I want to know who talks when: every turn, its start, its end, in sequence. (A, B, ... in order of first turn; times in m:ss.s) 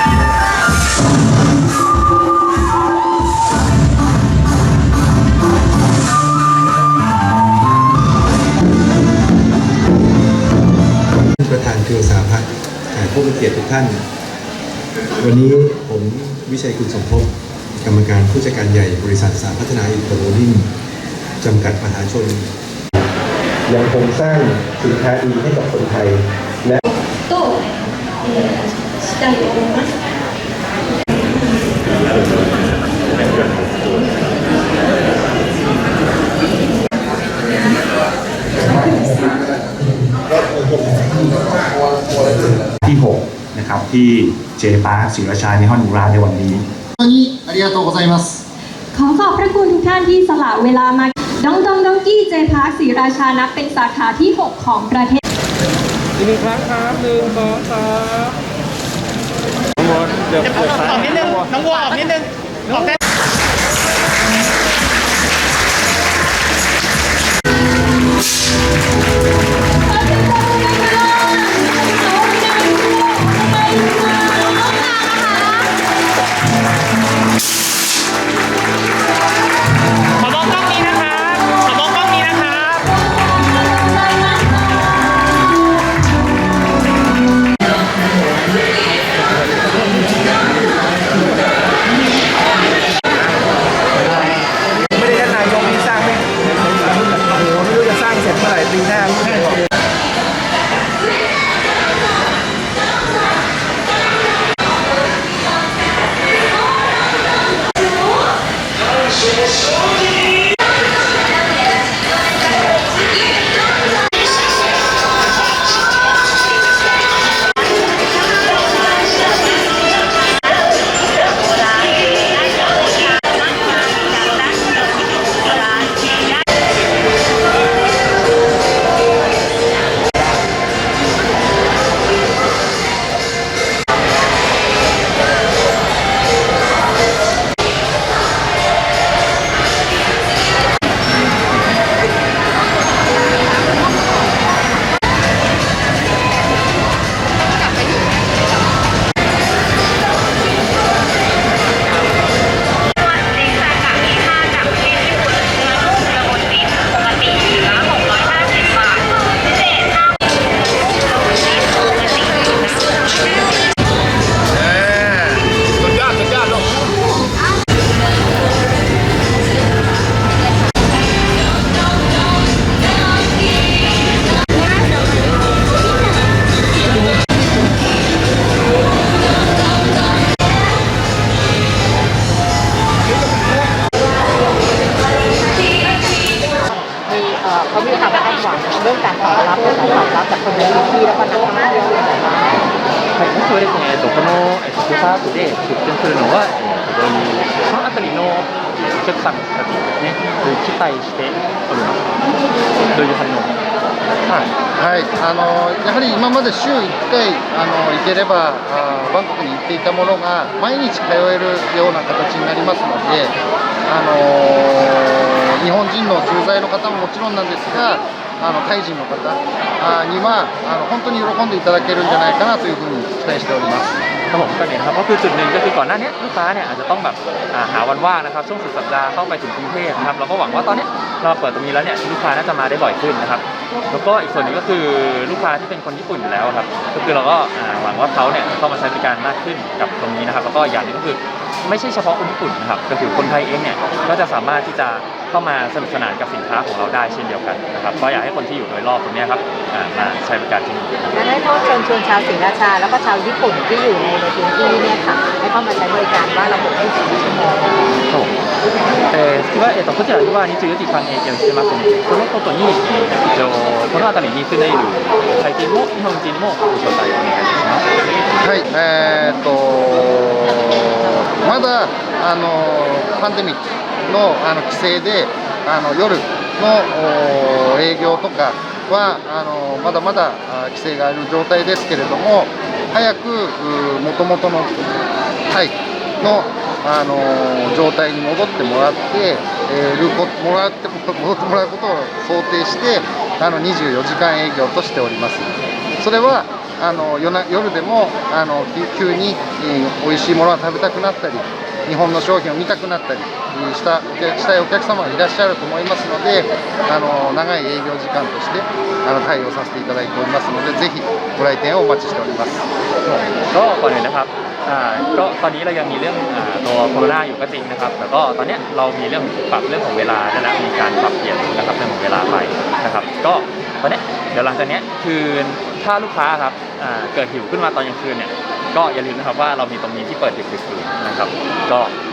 0:11.4-0:14.0 A
0:15.2-0:20.7 A
0:21.4-0:23.1 A
0:23.7-0:26.8 A
0:27.3-0:29.9 B
0:42.8-0:46.6 C
0:47.0-0:48.4 D
0:48.9-0:55.2 B
1:00.6-1:02.3 E
1:20.6-1:21.1 E
1:21.7-1:22.8 E
1:35.1-1:35.9 C
1:38.6-1:39.1 C
3:06.5-3:12.5 F
3:13.2-3:22.2 G
3:22.9-3:23.6 G
3:24.3-3:33.4 D
3:33.9-3:43.9 D
3:44.3-4:11.0 G
4:11.1-4:17.8 F
4:19.1-4:27.9 G
4:28.4-4:44.9 D
4:45.5-5:12.7 D
5:13.0-5:31.9 G